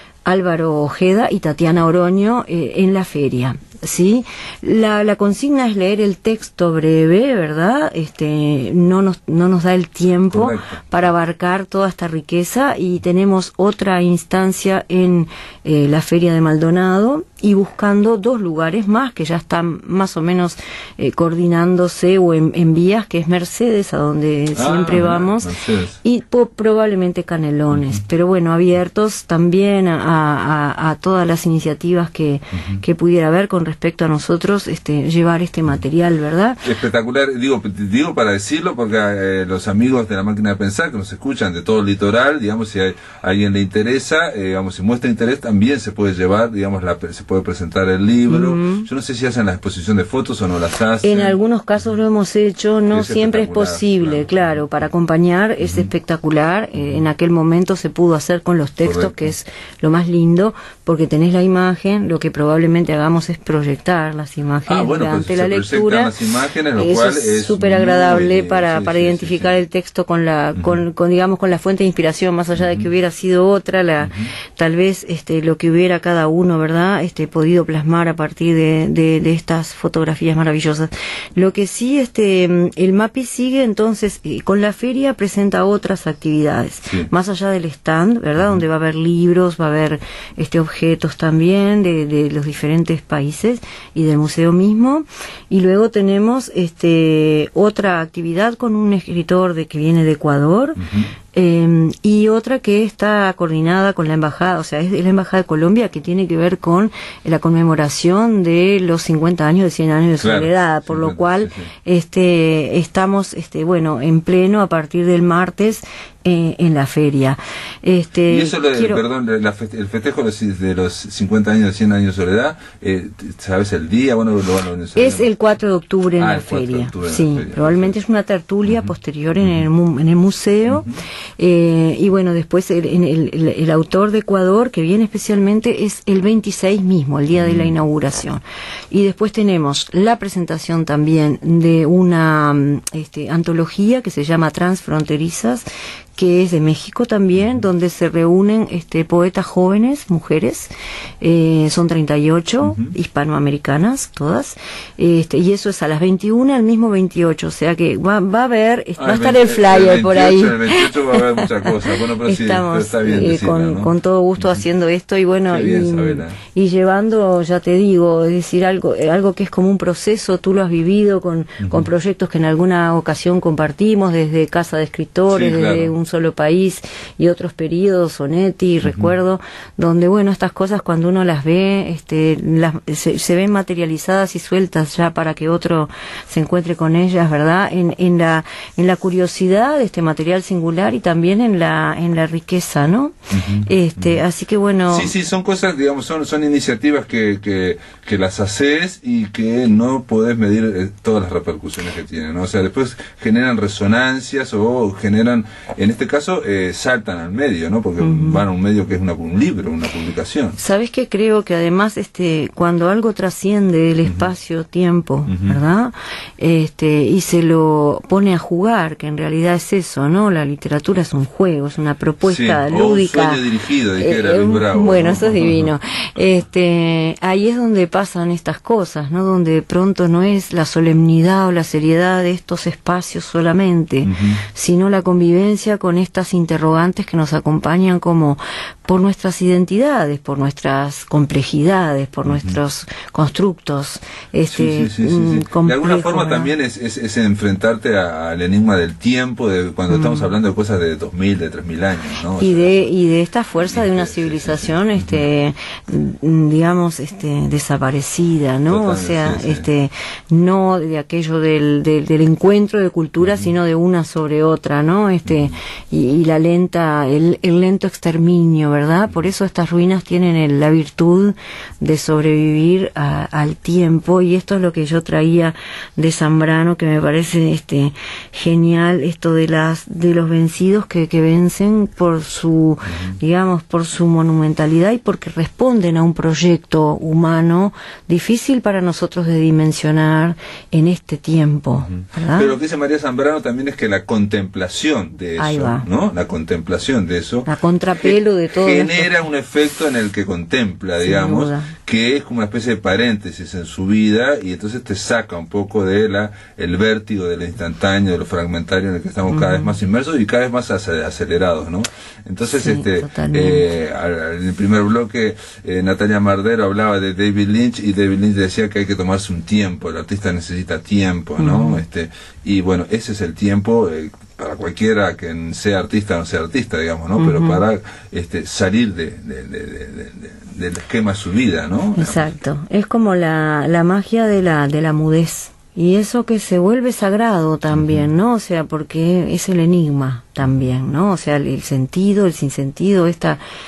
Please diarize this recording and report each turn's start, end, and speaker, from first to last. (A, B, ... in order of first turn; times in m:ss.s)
0:00.2-0:25.5 A
0:10.3-0:10.8 B
0:24.5-0:26.0 B
0:26.0-0:36.6 A
0:36.6-0:51.4 B
0:48.3-0:48.9 A
0:51.0-1:06.1 A
0:52.9-0:54.6 B
0:58.8-0:59.2 B
1:04.7-1:09.6 B
1:06.8-1:59.0 A
1:12.6-1:12.9 B
1:14.0-1:14.3 B
1:40.8-1:41.1 B
1:50.2-1:51.7 B
1:58.3-2:05.3 B
2:05.0-2:25.6 A
2:06.2-2:08.0 B
2:10.7-2:11.0 B
2:17.4-2:17.7 B
2:26.2-3:15.1 A
2:32.6-2:32.9 B
2:39.0-2:43.9 B
2:45.5-2:46.4 B
2:51.6-2:51.9 B
2:55.3-2:55.9 B
2:58.8-2:59.1 B
3:13.3-3:14.2 B
3:14.9-3:30.6 B
3:28.0-3:28.4 A
3:30.6-3:43.4 A
3:35.3-3:35.6 B
3:42.2-3:45.7 B
3:44.0-4:06.5 A
3:54.0-3:54.4 B
4:02.2-4:02.6 B
4:04.5-4:12.8 B
4:09.9-4:10.3 A
4:12.4-4:52.5 A
4:13.7-4:15.2 B
4:18.7-4:19.7 B
4:42.9-4:43.2 B
4:51.7-5:32.3 B
4:55.4-4:55.9 A
4:57.5-4:59.1 A
5:01.0-5:01.7 A
5:09.3-5:09.8 A
5:12.5-5:13.6 A
5:21.4-5:21.8 A
5:27.2-5:27.6 A
5:32.0-5:43.4 A
5:37.7-5:38.0 B